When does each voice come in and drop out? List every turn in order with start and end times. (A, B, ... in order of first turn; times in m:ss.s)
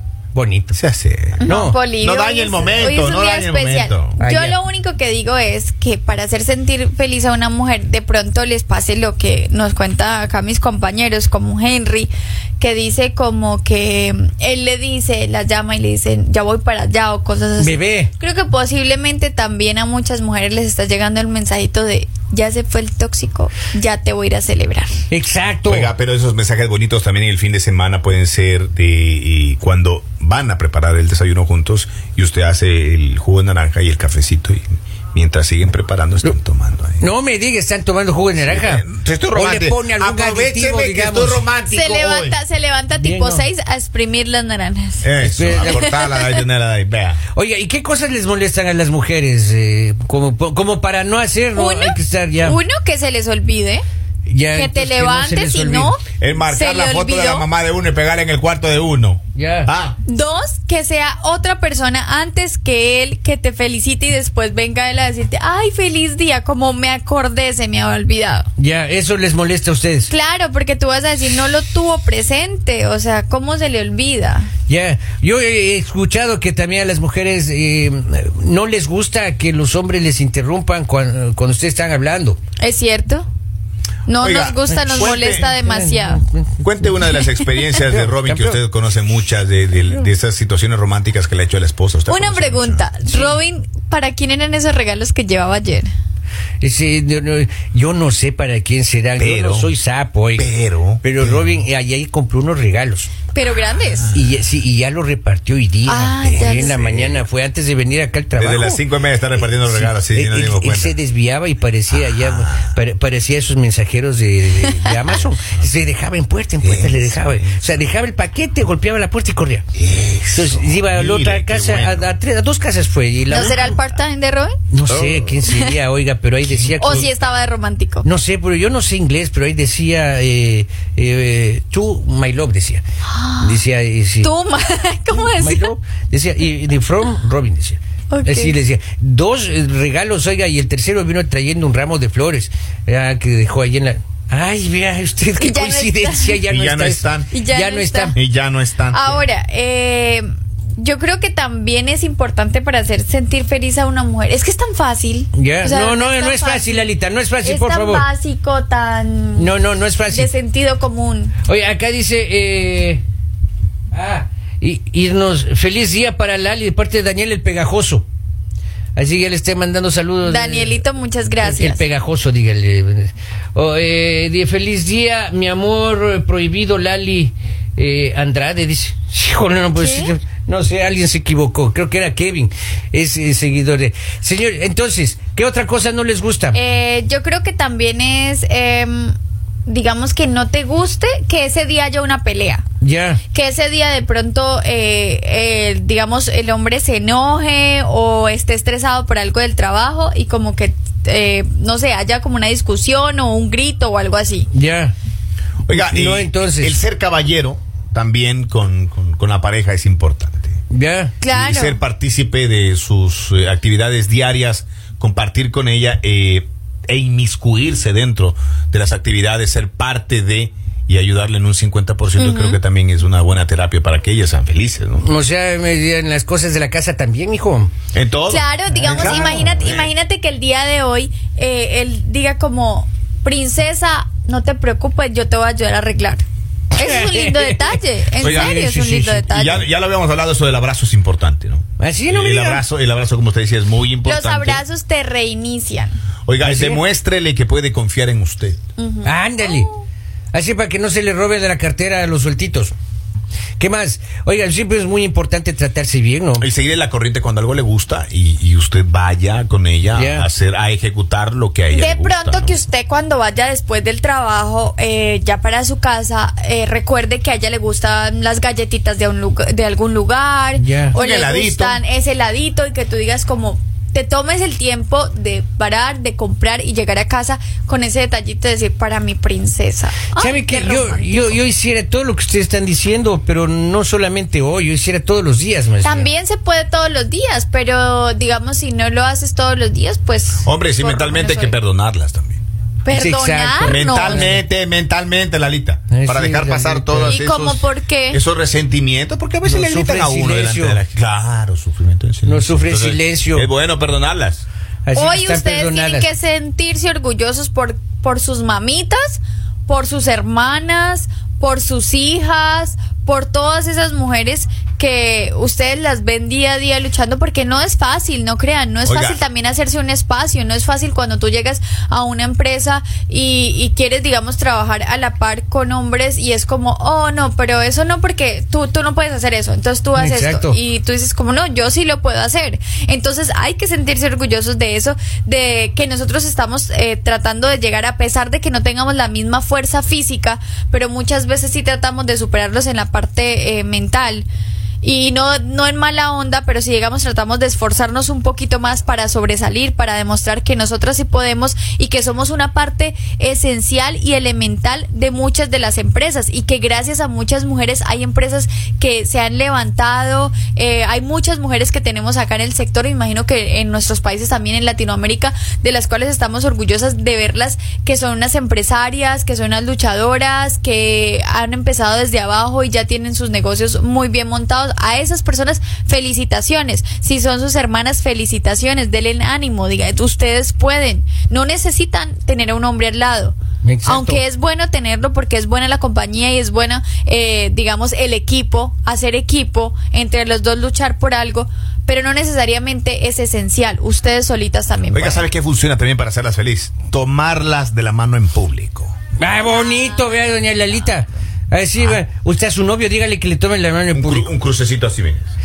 0:00.3-0:00.7 A
0:00.7-0:04.2 B
0:01.4-0:25.0 C
0:01.5-0:01.8 A
0:04.2-0:04.6 A
0:17.6-0:18.1 A
0:25.1-0:25.9 A
0:25.6-0:37.0 B
0:37.0-0:41.4 A
0:38.5-0:42.4 B
0:41.7-0:46.4 C
0:43.0-0:43.4 A
0:45.0-0:47.2 B
0:45.2-0:45.8 A
0:47.3-0:52.6 A
0:51.6-0:53.8 C
0:54.3-0:56.0 A
0:54.5-0:57.5 C
0:56.2-1:00.0 B
0:59.4-0:59.7 A
1:00.1-1:08.5 C
1:08.6-1:10.1 A
1:10.1-1:14.5 C
1:14.7-1:22.4 A
1:22.6-1:23.3 C
1:24.1-1:26.2 C
1:24.2-1:25.5 B
1:24.7-1:27.0 A
1:26.6-1:32.8 B
1:27.9-1:28.6 A
1:32.1-1:35.9 C
1:33.1-1:33.4 A
1:36.6-1:40.5 A
1:39.2-1:39.7 B
1:40.4-1:41.6 B
1:41.0-1:43.1 A
1:43.3-1:44.2 C
1:43.7-1:44.4 B
1:44.1-1:48.8 A
1:45.9-1:46.9 C
1:46.3-1:47.2 B
1:48.4-1:51.0 B
1:49.4-1:59.6 A
1:51.9-1:52.7 B
1:56.6-1:57.6 B
1:59.8-2:02.2 B
2:00.3-2:03.8 A
2:03.3-2:04.6 C
2:04.7-2:07.1 A
2:04.9-2:05.4 B
2:05.5-2:05.7 C
2:06.5-2:07.1 B
2:06.8-2:08.1 C
2:08.0-2:12.8 A
2:13.1-2:13.6 C
2:13.4-2:14.3 A
2:14.2-2:15.7 C
2:15.4-2:28.2 A
2:18.1-2:18.5 C
2:25.4-2:26.4 C
2:26.5-2:27.3 B
2:27.3-2:28.2 C
2:28.2-2:29.2 B
2:28.9-2:30.2 C
2:30.8-2:36.9 C
2:35.3-2:38.1 A
2:37.4-2:39.5 C
2:39.4-2:40.3 A
2:40.1-2:41.4 C
2:41.4-2:43.0 A
2:43.9-2:48.1 A
2:49.0-2:50.8 A
2:50.2-2:51.8 C
2:51.4-3:06.6 A
2:59.8-3:00.1 C
3:06.5-3:09.2 C
3:09.7-3:12.6 C
3:12.8-3:13.2 A
3:13.3-3:24.5 C
3:24.5-3:25.0 A
3:25.7-3:30.6 B
3:25.7-3:26.8 A
3:30.7-3:31.2 A
3:31.2-3:31.8 C
3:31.3-3:45.1 B
3:42.2-3:42.6 C
3:45.0-3:47.7 A
3:47.9-3:49.9 B
3:48.3-3:59.6 C
3:48.8-3:49.5 A
3:56.8-3:59.3 A
3:58.2-3:58.6 B
3:59.3-4:04.6 B
4:01.8-4:02.6 A
4:04.0-4:06.0 C
4:06.3-4:08.6 B
4:06.4-4:06.8 A
4:08.8-4:09.8 C
4:09.0-4:09.7 A
4:10.3-4:12.7 A
4:13.6-4:16.5 A
4:16.4-4:22.6 B
4:19.9-4:20.3 A
4:21.7-4:41.4 C
4:30.6-4:31.0 A
4:30.9-4:31.8 B
4:40.2-4:46.1 A
4:45.8-4:51.6 C
4:50.4-4:52.4 B
4:52.8-4:54.4 C
4:52.9-4:54.4 A
4:53.7-5:04.4 B
4:55.9-4:57.2 A
4:57.1-4:58.2 C
4:59.4-5:00.8 A
5:02.2-5:03.5 A
5:04.9-5:06.1 A
5:05.0-5:44.3 C
5:18.9-5:19.2 B
5:30.0-5:30.6 A
5:44.8-6:35.2 C
6:23.6-6:24.2 A
6:34.9-6:38.9 B
6:39.2-6:44.3 A
6:39.6-6:40.0 C
6:43.9-6:45.3 B